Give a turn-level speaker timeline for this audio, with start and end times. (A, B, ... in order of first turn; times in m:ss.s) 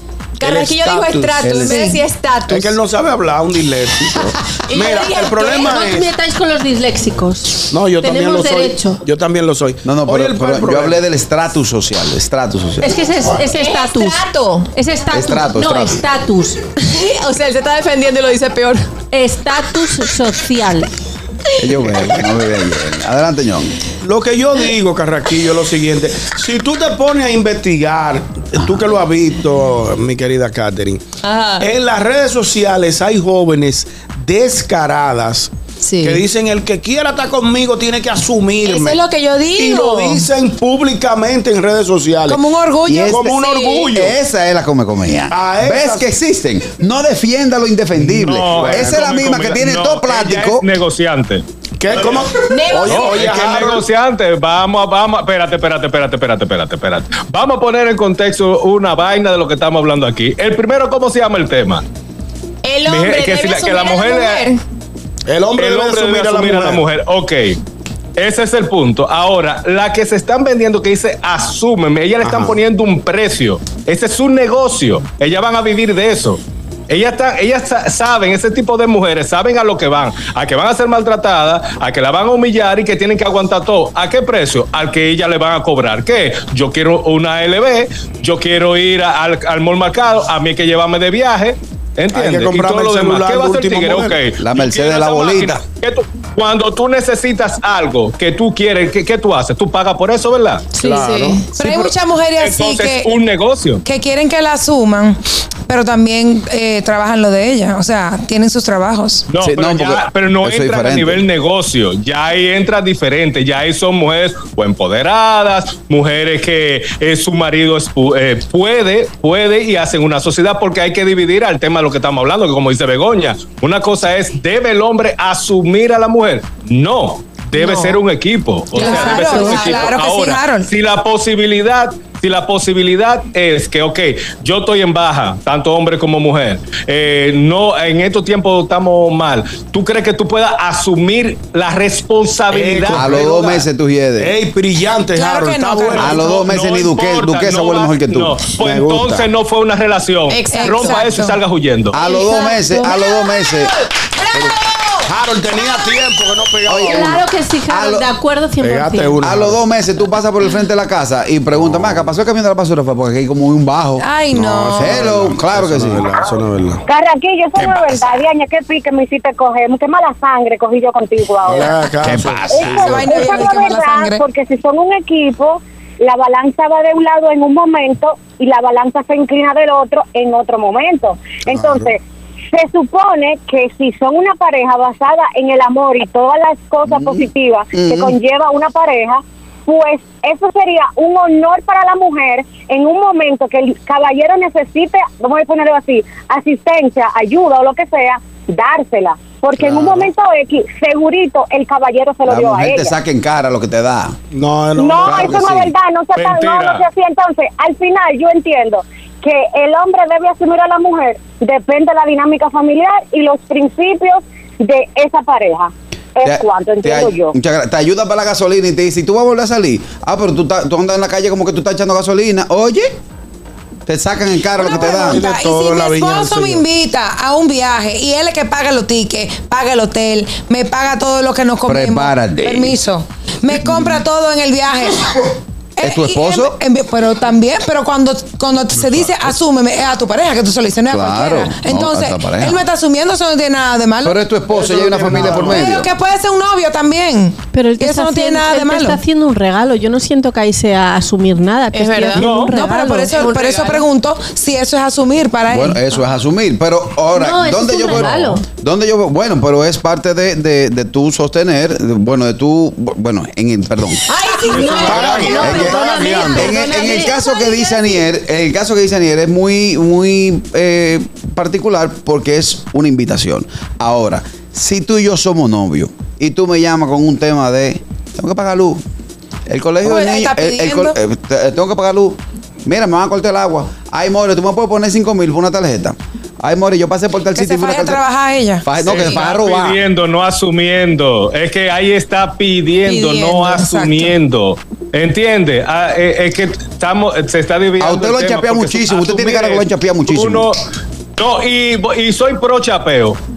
0:00.4-0:02.8 A
0:00.4-0:01.6 B
0:01.4-0:01.8 C
0:01.7-0:02.0 D
0:02.5-0:06.1 B
0:04.6-0:05.9 A
0:05.6-0:09.0 E
0:07.7-0:11.0 B
0:09.8-0:13.0 C
0:12.8-0:16.6 E
0:13.5-0:14.7 A
0:15.1-0:16.0 C
0:16.8-0:19.0 A
0:19.1-0:20.9 E
0:21.6-0:23.8 C
0:24.0-0:31.0 B
0:31.2-0:31.7 A
0:31.6-0:35.5 B
0:35.8-0:36.2 A
0:36.0-0:39.0 B
0:38.6-0:40.3 A
0:39.5-0:42.4 B
0:42.3-0:43.3 D
0:42.9-0:50.7 C
0:43.0-0:44.1 B
0:43.3-0:43.9 A
0:45.3-0:46.0 B
0:48.0-0:51.4 F
0:48.5-0:49.0 B
0:51.8-0:53.8 B
0:52.5-0:53.2 A
0:52.9-1:01.8 F
1:02.6-1:04.6 A
1:02.9-1:04.5 F
1:05.3-1:06.8 B
1:05.6-1:07.6 F
1:08.2-1:40.7 F
1:12.2-1:12.6 B
1:32.1-1:34.2 B
1:34.4-1:35.6 C
1:40.8-1:41.8 B
1:40.8-1:41.5 A
1:41.6-1:43.1 D
1:42.4-1:43.8 F
1:43.8-1:49.2 D
1:49.3-2:23.1 F
1:49.4-1:51.2 C
2:07.6-2:08.0 A
2:08.8-2:10.7 D
2:08.8-2:09.9 A
2:22.5-2:23.7 B
2:22.9-2:24.3 C
2:24.2-2:26.4 B
2:25.2-2:26.3 D
2:26.0-2:28.4 C
2:26.2-2:32.0 F
2:28.6-2:29.3 B
2:30.3-2:31.2 A
2:30.5-2:31.4 D
2:31.9-2:33.7 C
2:31.9-2:33.6 A
2:34.2-2:34.8 A
2:35.0-2:37.2 B
2:36.7-2:38.1 C
2:36.8-2:39.2 E
2:38.6-2:39.6 B
2:39.2-2:44.1 C
2:44.0-2:45.0 D
2:44.3-2:46.8 B
2:44.8-2:46.1 C
2:46.9-2:51.8 G
2:47.6-2:48.0 C
2:51.5-2:53.0 B
2:52.0-2:53.3 C
2:52.5-3:02.0 G
2:52.6-2:54.2 D
3:02.5-3:22.9 G
3:06.9-3:08.2 C
3:19.6-3:20.1 C
3:22.3-3:24.2 C
3:24.3-3:25.6 B
3:24.8-3:37.4 G
3:25.0-3:25.7 C
3:26.2-3:26.8 F
3:36.2-3:42.9 C
3:43.9-3:45.2 C
3:44.6-3:55.2 D
3:44.7-3:46.6 B
3:51.7-3:52.8 C
3:53.6-3:54.0 C
3:55.8-4:04.2 D
3:55.8-3:56.6 C
4:00.9-4:02.6 C
4:04.0-4:05.9 C
4:04.5-4:05.6 B
4:05.2-4:09.0 D
4:07.5-4:13.3 E
4:11.7-4:12.5 A
4:12.2-4:12.5 F
4:12.2-4:15.8 D
4:13.1-4:13.8 A
4:15.5-4:24.0 C
4:17.1-4:18.4 E
4:24.1-4:26.1 A
4:24.4-4:28.0 E
4:24.8-4:26.6 B
4:24.9-4:38.8 C
4:39.5-4:48.0 C
4:39.8-4:41.0 D
4:47.4-4:49.2 D
4:48.6-4:49.8 C
4:48.9-5:00.6 F
4:52.9-4:54.1 D
4:57.8-5:00.5 C
5:01.2-5:03.2 F